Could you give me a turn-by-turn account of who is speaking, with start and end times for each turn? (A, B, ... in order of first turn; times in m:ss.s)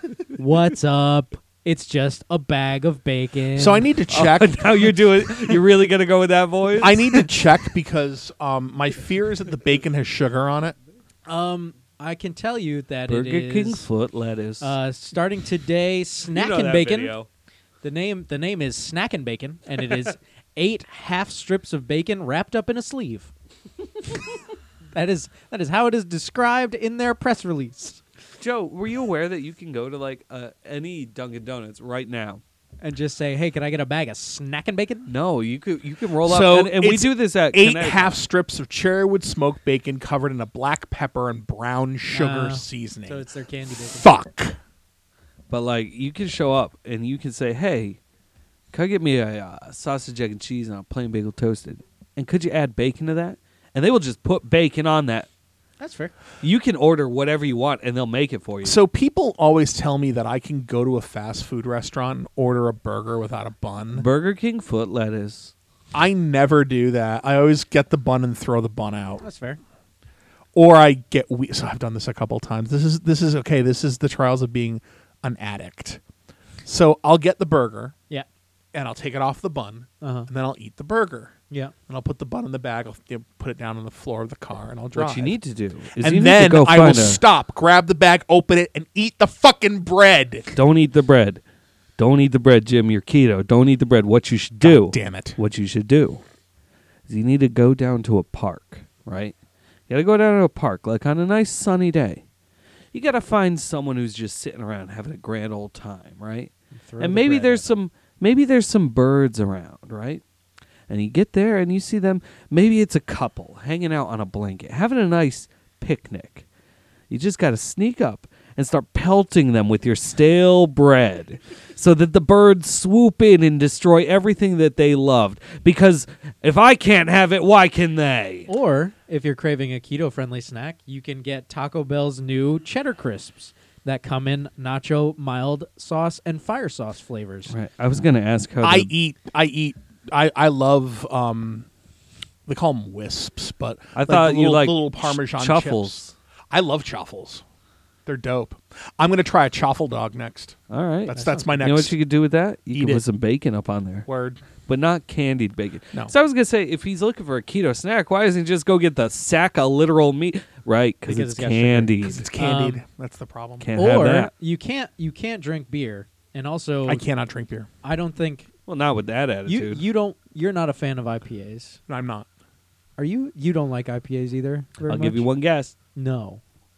0:00.3-0:03.9 A
0:03.6-0:05.0 B
0:04.1-0:07.3 C
0:06.8-0:10.8 B
0:11.3-0:13.9 A
0:13.1-0:14.7 C
0:14.6-0:17.2 A
0:16.3-0:17.3 C
0:17.8-0:23.3 A
0:24.9-0:28.0 A
0:28.4-0:32.4 C
0:32.8-0:35.1 A
0:35.1-0:38.2 C
0:36.2-0:43.2 B
0:42.1-0:44.1 A
0:43.9-0:44.6 B
0:45.5-0:48.0 C
0:48.7-0:55.3 C
0:55.8-0:56.1 A
0:56.4-0:58.8 C
0:58.6-1:04.1 B
1:03.9-1:05.5 C
1:05.9-1:09.2 B
1:09.2-1:09.6 A
1:10.6-1:16.0 B
1:16.6-1:18.0 B
1:18.7-1:21.4 B
1:20.0-1:20.3 A
1:21.9-1:25.4 B
1:25.0-1:27.2 C
1:26.0-1:30.5 B
1:30.6-1:31.4 C
1:32.0-1:36.2 C
1:34.6-1:35.4 B
1:37.1-1:39.3 C
1:39.9-1:42.2 C
1:42.9-1:50.2 C
1:46.8-1:47.7 A
1:50.9-1:56.4 C
1:57.1-2:08.5 C
2:08.5-2:17.5 A
2:17.5-2:18.9 C
2:18.6-2:21.7 B
2:22.5-2:26.0 B
2:24.0-2:26.1 C
2:26.5-2:27.4 B
2:28.1-2:32.0 B
2:30.7-2:34.1 C
2:31.1-2:31.5 A
2:32.7-2:33.0 B
2:34.1-2:34.4 B
2:34.7-2:42.2 C
2:41.1-2:42.8 A
2:42.0-2:43.7 B
2:43.6-2:44.3 C
2:43.8-2:47.0 A
2:46.9-2:47.7 B
2:47.8-2:48.5 A
2:48.7-2:49.8 C
2:49.5-2:51.8 A
2:51.9-2:52.3 B
2:53.0-2:55.3 A
2:54.9-2:55.7 C
2:56.0-2:56.4 A